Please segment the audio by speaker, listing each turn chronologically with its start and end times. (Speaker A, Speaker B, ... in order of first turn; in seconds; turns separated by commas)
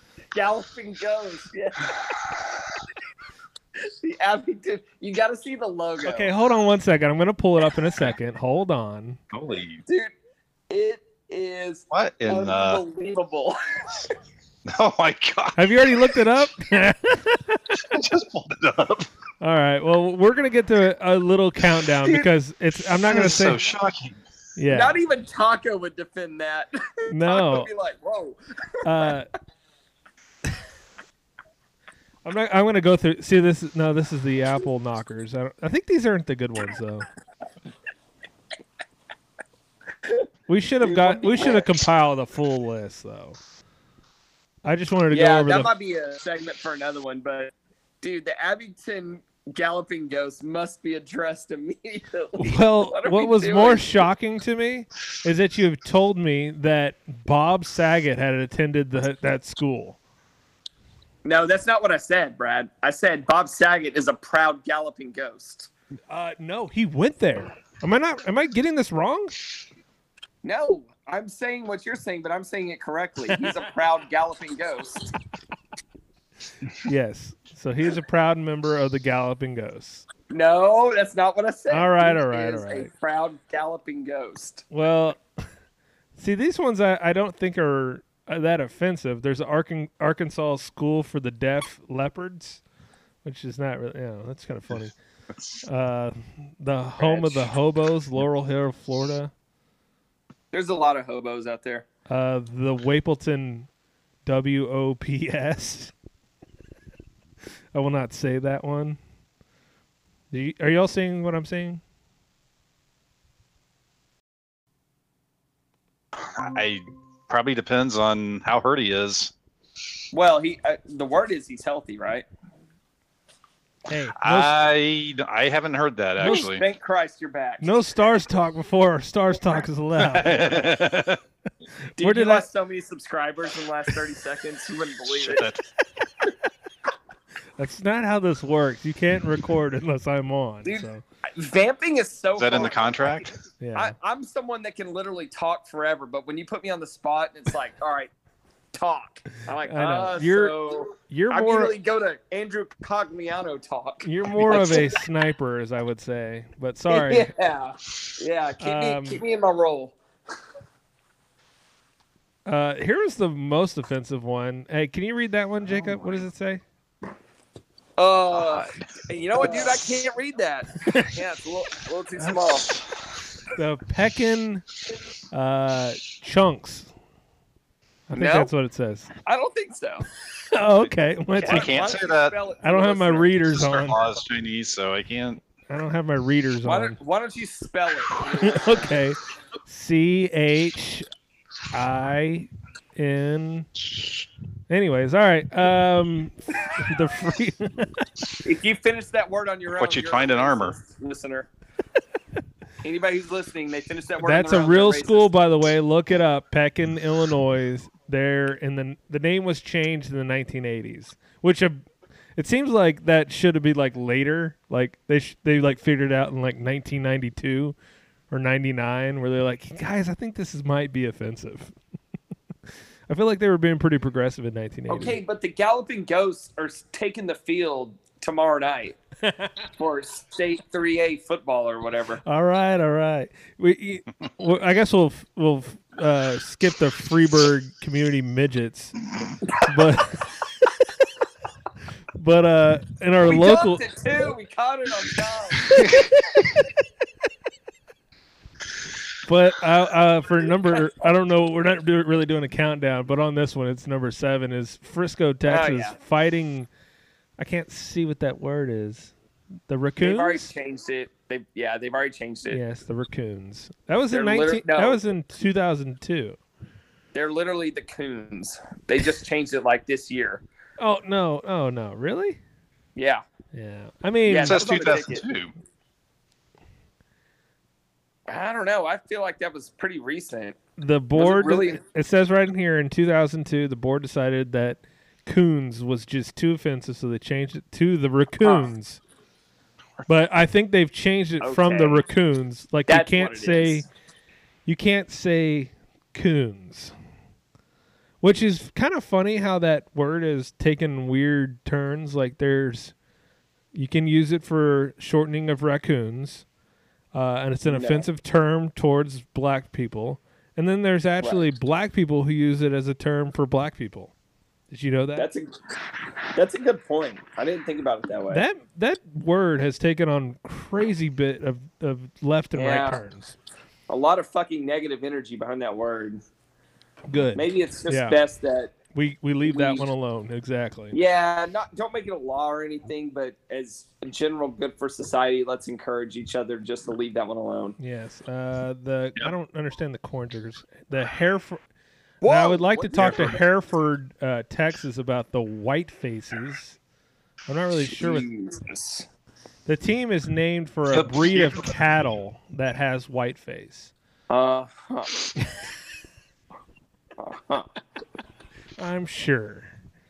Speaker A: 0.3-2.0, Speaker A: 4.0-6.3, Speaker B: 6.0-9.2, Speaker C: 9.3-9.8, Speaker A: 9.9-10.1, Speaker A: 10.7-14.1, Speaker C: 11.9-12.8, Speaker C: 14.7-15.6, Speaker B: 15.6-17.8, Speaker C: 17.8-19.1, Speaker B: 19.4-23.6, Speaker C: 23.1-24.2, Speaker B: 24.6-25.0, Speaker A: 24.7-28.4, Speaker B: 27.1-27.7, Speaker B: 28.8-29.3, Speaker B: 32.2-37.1, Speaker B: 40.5-43.4, Speaker A: 40.8-41.6, Speaker B: 44.6-45.7, Speaker A: 45.1-54.0, Speaker B: 52.4-60.0, Speaker A: 61.2-65.7, Speaker B: 66.1-69.4, Speaker A: 70.4-75.1, Speaker B: 73.3-73.6, Speaker B: 76.8-80.1, Speaker A: 80.3-84.7, Speaker B: 81.7-82.9, Speaker B: 84.7-85.5, Speaker B: 86.2-92.6, Speaker B: 93.2-95.0, Speaker B: 95.6-99.3, Speaker A: 97.0-97.5, Speaker A: 100.5-101.9, Speaker B: 102.1-103.7, Speaker B: 104.2-105.9, Speaker B: 107.7-109.0, Speaker B: 110.3-111.8, Speaker C: 116.2-119.3, Speaker A: 120.1-122.3, Speaker B: 123.9-124.6, Speaker C: 124.2-126.6, Speaker B: 126.2-126.5, Speaker A: 126.2-127.8, Speaker B: 127.6-130.7, Speaker C: 130.0-131.2, Speaker B: 132.0-132.5, Speaker A: 132.0-135.5, Speaker C: 135.1-135.6, Speaker B: 137.6-141.0, Speaker A: 140.7-148.1, Speaker C: 142.4-143.4, Speaker B: 143.6-143.9, Speaker A: 148.7-154.9, Speaker B: 149.6-151.8, Speaker B: 154.0-157.3, Speaker A: 156.9-160.0, Speaker B: 158.6-159.2, Speaker B: 162.5-166.6, Speaker C: 165.8-166.2, Speaker A: 168.0-172.7, Speaker C: 168.3-168.9, Speaker C: 169.4-170.0, Speaker C: 172.2-173.2, Speaker B: 173.5-174.7, Speaker B: 175.3-176.9, Speaker B: 178.1-179.1, Speaker A: 178.1-178.5, Speaker A: 179.2-180.1, Speaker B: 180.5-181.8, Speaker A: 181.3-183.3, Speaker C: 181.4-182.4, Speaker B: 182.6-184.0, Speaker C: 183.6-185.4, Speaker B: 185.7-187.0, Speaker A: 186.7-188.9, Speaker B: 188.4-191.1, Speaker B: 191.7-193.7, Speaker C: 193.8-194.2, Speaker B: 194.7-198.1, Speaker A: 198.4-201.5, Speaker C: 199.7-200.8, Speaker A: 202.8-205.3, Speaker B: 204.2-217.8, Speaker B: 218.3-221.8, Speaker B: 223.1-225.2, Speaker A: 224.9-229.0, Speaker B: 229.2-229.5, Speaker A: 229.8-232.2, Speaker B: 232.2-239.0, Speaker B: 239.6-240.3, Speaker B: 242.1-243.8, Speaker A: 243.3-245.9, Speaker B: 249.2-256.7, Speaker A: 255.5-256.0, Speaker B: 257.4-259.1, Speaker B: 259.7-260.5, Speaker A: 260.0-262.6, Speaker B: 262.5-266.4, Speaker A: 264.1-265.0, Speaker A: 267.1-270.4, Speaker B: 270.8-272.4, Speaker A: 272.9-273.2, Speaker B: 273.5-274.6, Speaker A: 274.3-275.2, Speaker C: 274.4-275.5, Speaker A: 278.3-280.6, Speaker B: 280.8-289.0, Speaker A: 281.2-281.8, Speaker B: 290.1-293.9, Speaker A: 291.4-292.0, Speaker A: 292.9-293.9, Speaker B: 294.7-296.9, Speaker B: 298.2-302.9, Speaker B: 303.7-306.4, Speaker B: 307.1-314.1, Speaker A: 307.7-308.0, Speaker B: 314.7-315.3, Speaker A: 315.2-315.5, Speaker A: 316.3-318.4, Speaker B: 318.3-323.4, Speaker A: 322.5-323.0, Speaker A: 323.9-326.2, Speaker B: 327.1-328.2, Speaker A: 327.4-328.8, Speaker B: 328.9-331.0, Speaker A: 329.5-329.9, Speaker A: 330.9-337.8, Speaker B: 337.8-341.6, Speaker A: 342.2-343.4, Speaker B: 342.2-346.8, Speaker C: 343.0-343.4, Speaker B: 347.5-348.3, Speaker A: 347.9-349.1, Speaker B: 349.7-353.9, Speaker C: 350.9-351.6, Speaker A: 354.3-355.2, Speaker A: 357.2-357.7, Speaker B: 358.8-359.7